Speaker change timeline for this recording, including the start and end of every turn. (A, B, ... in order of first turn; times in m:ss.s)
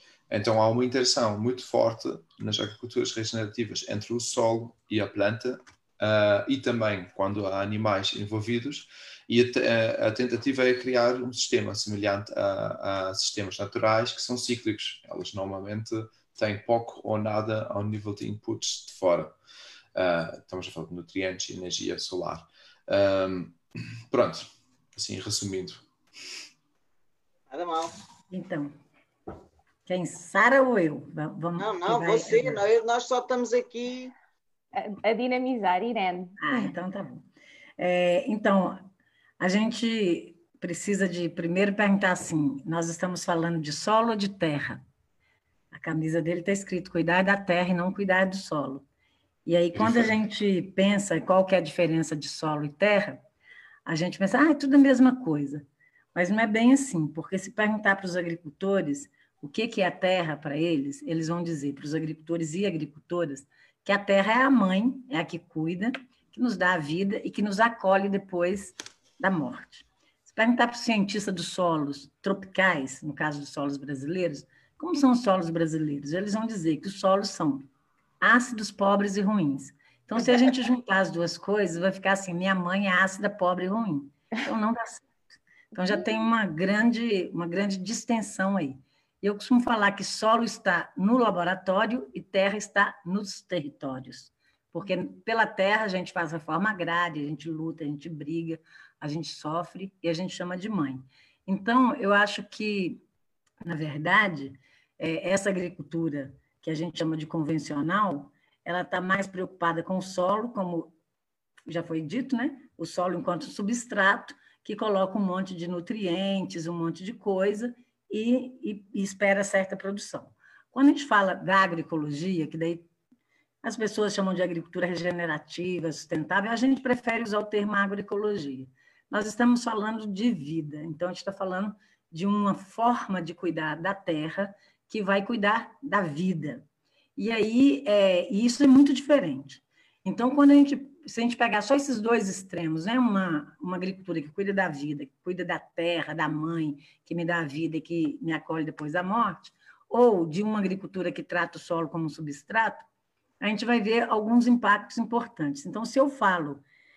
0:00.3-0:19.4 A
0:20.0-0:23.6 A
0:24.1-0:25.8 A
0:27.5-0:27.9 B
0:28.3-0:28.7 C
0:29.9-0:32.6 C
0:31.6-0:34.1 B
0:34.7-0:36.7 D
0:36.4-0:37.2 C
0:37.8-0:38.9 C
0:39.4-0:44.8 C
0:45.7-0:48.8 C
0:49.5-0:53.2 C
0:49.7-0:50.2 A
0:53.9-1:17.7 C
1:18.2-1:25.1 C
1:25.7-1:43.0 C
1:43.6-1:50.9 C
1:51.7-2:02.9 C
2:03.6-2:16.6 C
2:17.2-2:32.8 C
2:33.4-2:36.6 C